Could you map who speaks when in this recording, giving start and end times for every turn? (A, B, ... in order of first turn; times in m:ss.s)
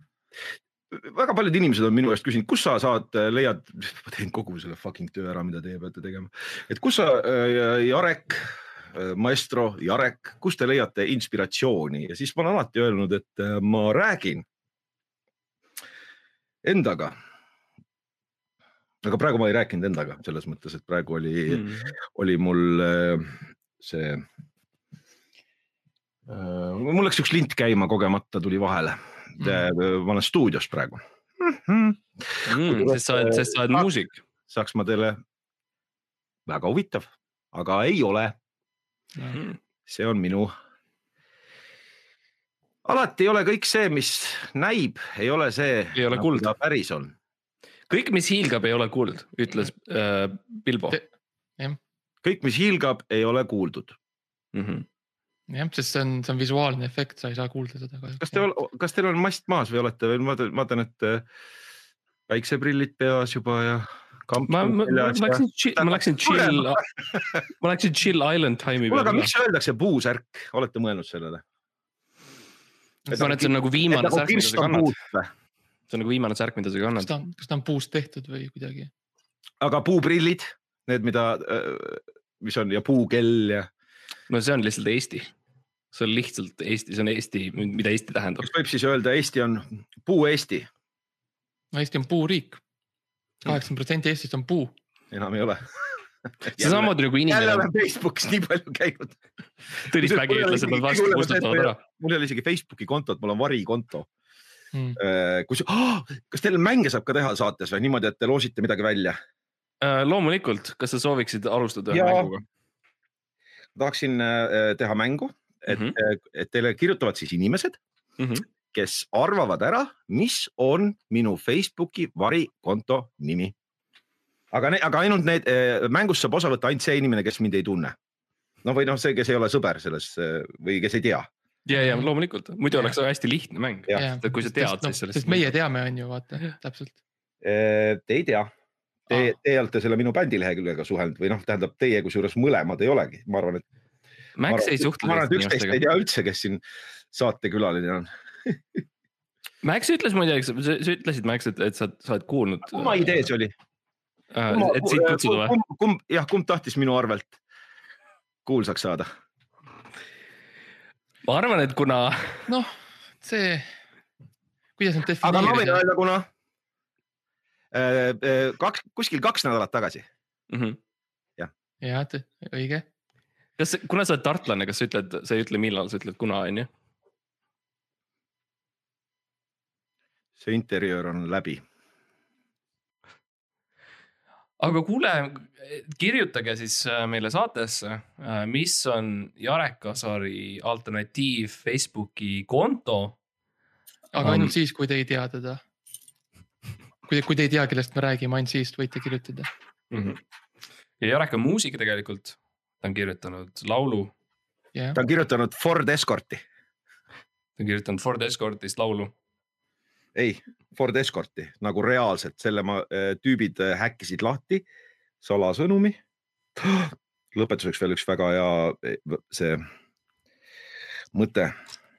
0:00.9-0:14.4 A
0:16.6-0:17.2 A
0:19.0-0:24.3 A
0:21.5-0:21.9 B
0:26.3-0:33.9 A
0:32.5-0:34.2 B
0:34.5-0:35.2 A
0:36.5-0:38.4 A
0:39.3-0:39.6 B
0:39.9-0:40.5 A
0:42.8-0:47.1 A
0:45.9-0:46.5 B
0:47.9-0:51.0 B
0:52.2-0:54.0 A
0:54.5-0:54.8 B
0:55.5-0:58.4 C
0:58.2-1:01.3 A
1:02.3-1:07.4 A
1:04.4-1:06.8 B
1:07.6-1:09.3 B
1:08.9-1:11.4 A
1:13.1-1:14.9 B
1:13.1-1:15.3 A
1:15.9-1:17.1 B
1:17.0-1:18.9 C
1:19.6-1:23.7 A
1:24.3-1:25.3 B
1:25.9-1:28.5 B
1:28.4-1:30.7 A
1:31.7-1:32.6 C
1:33.4-1:34.7 C
1:35.1-1:39.2 A
1:36.6-1:37.7 B
1:39.8-1:44.1 A
1:39.9-1:41.8 B
1:44.7-1:45.0 C
1:45.0-1:49.2 A
1:49.8-1:52.4 B
1:51.9-1:52.3 A
1:53.8-1:57.8 A
1:55.7-1:56.0 B
1:58.2-1:58.4 B
1:58.7-2:03.5 A
2:04.5-2:08.0 A
2:08.6-2:11.3 A
2:11.7-2:15.5 B
2:11.7-2:12.1 C
2:13.9-2:17.0 C
2:17.4-2:18.5 A
2:19.1-2:23.6 A
2:24.4-2:25.8 B
2:24.5-2:28.8 A
2:29.6-2:33.2 B
2:32.7-2:33.5 A
2:34.3-2:35.6 B
2:34.5-2:37.4 A
2:38.5-2:39.1 A
2:41.2-2:42.4 B
2:43.2-2:43.7 C
2:44.8-2:45.8 C
2:45.2-2:46.3 A
2:47.7-2:50.1 A
2:50.5-2:50.8 B
2:51.8-2:52.8 C
2:53.6-2:56.7 B
3:00.4-3:01.6 A
3:04.6-3:13.2 B
3:14.1-3:15.6 C
3:14.2-3:14.5 B
3:17.1-3:19.5 C
3:19.9-3:20.2 B
3:21.0-3:24.1 B
3:24.9-3:26.4 A
3:27.6-3:29.1 B
3:30.2-3:34.6 A
3:35.2-3:36.0 A
3:36.6-3:39.6 A
3:41.1-3:41.6 A